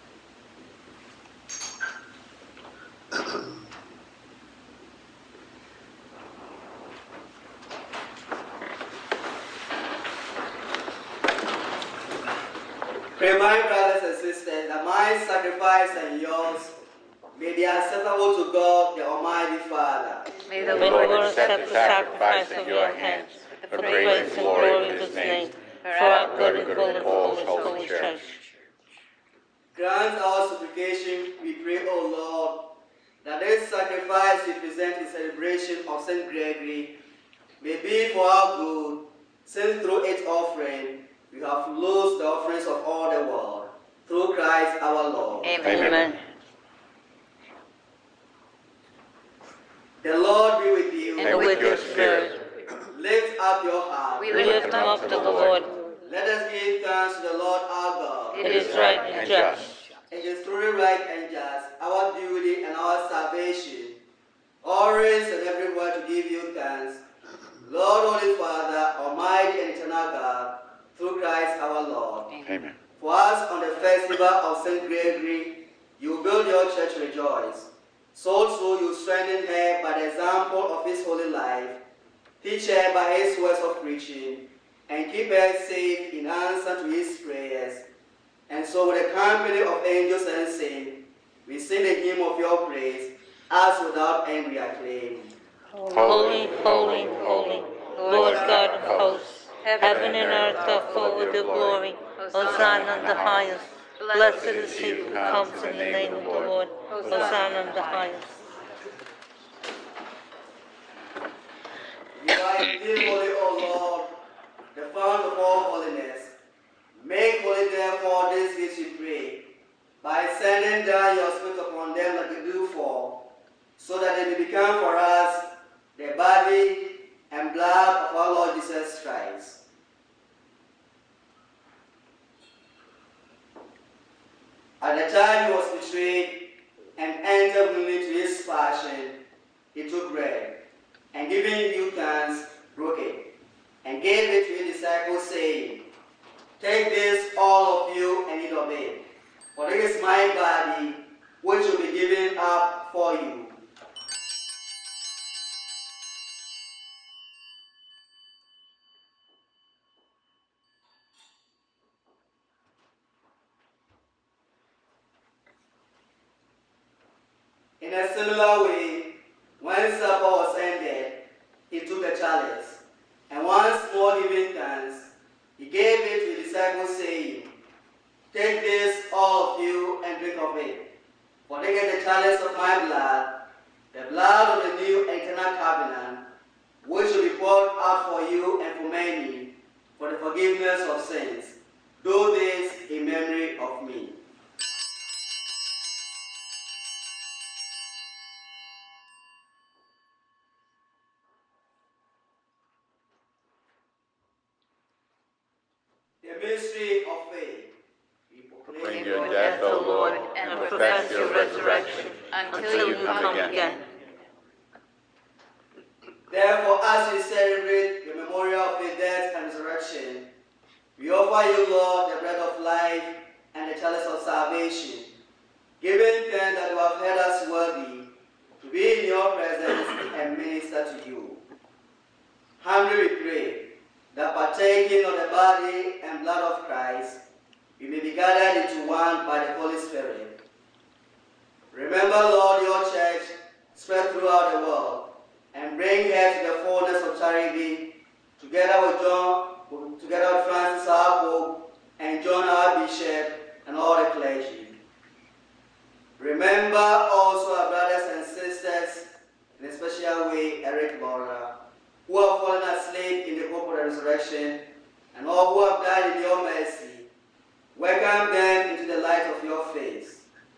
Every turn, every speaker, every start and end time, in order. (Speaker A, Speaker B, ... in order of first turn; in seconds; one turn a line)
Speaker A: 13.1-16.8
Speaker A: 17.3-20.3
Speaker B: 20.6-25.6
Speaker C: 20.7-28.3
Speaker B: 26.2-28.1
Speaker A: 29.7-37.0
Speaker A: 37.6-46.0
Speaker B: 45.6-46.1
Speaker C: 45.6-46.2
Speaker A: 50.0-51.5
Speaker C: 51.2-52.4
Speaker B: 51.3-52.4
Speaker A: 52.9-54.5
Speaker B: 54.3-55.6
Speaker C: 54.3-55.8
Speaker A: 56.0-59.0
Speaker C: 58.4-59.5
Speaker B: 58.5-59.8
Speaker A: 60.1-64.0
Speaker A: 64.6-67.0
Speaker A: 67.6-72.4
Speaker B: 72.4-72.8
Speaker A: 73.0-81.8
Speaker A: 82.4-87.9
Speaker A: 88.5-95.3
Speaker C: 95.9-108.3
Speaker B: 95.9-99.2
Speaker A: 98.1-98.6
Speaker B: 99.8-101.8
Speaker B: 102.4-103.5
Speaker B: 104.3-107.3
Speaker A: 112.2-114.2
Speaker A: 114.7-116.3
Speaker A: 116.9-129.6
Speaker A: 134.8-139.2
Speaker A: 139.7-140.6
Speaker A: 141.1-143.3
Speaker A: 143.8-145.9
Speaker A: 146.6-153.6
Speaker A: 167.8-177.6
Speaker A: 178.3-180.9
Speaker A: 181.5-186.3
Speaker A: 186.8-194.2
Speaker A: 206.2-207.8
Speaker A: 208.3-209.6
Speaker B: 208.7-213.7
Speaker C: 209.4-211.9
Speaker C: 212.5-213.8
Speaker A: 216.3-220.3
Speaker A: 221.0-225.2
Speaker A: 225.8-231.4
Speaker A: 232.6-237.2
Speaker A: 237.8-240.4
Speaker A: 241.7-254.8
Speaker A: 256.2-267.1
Speaker A: 267.7-270.3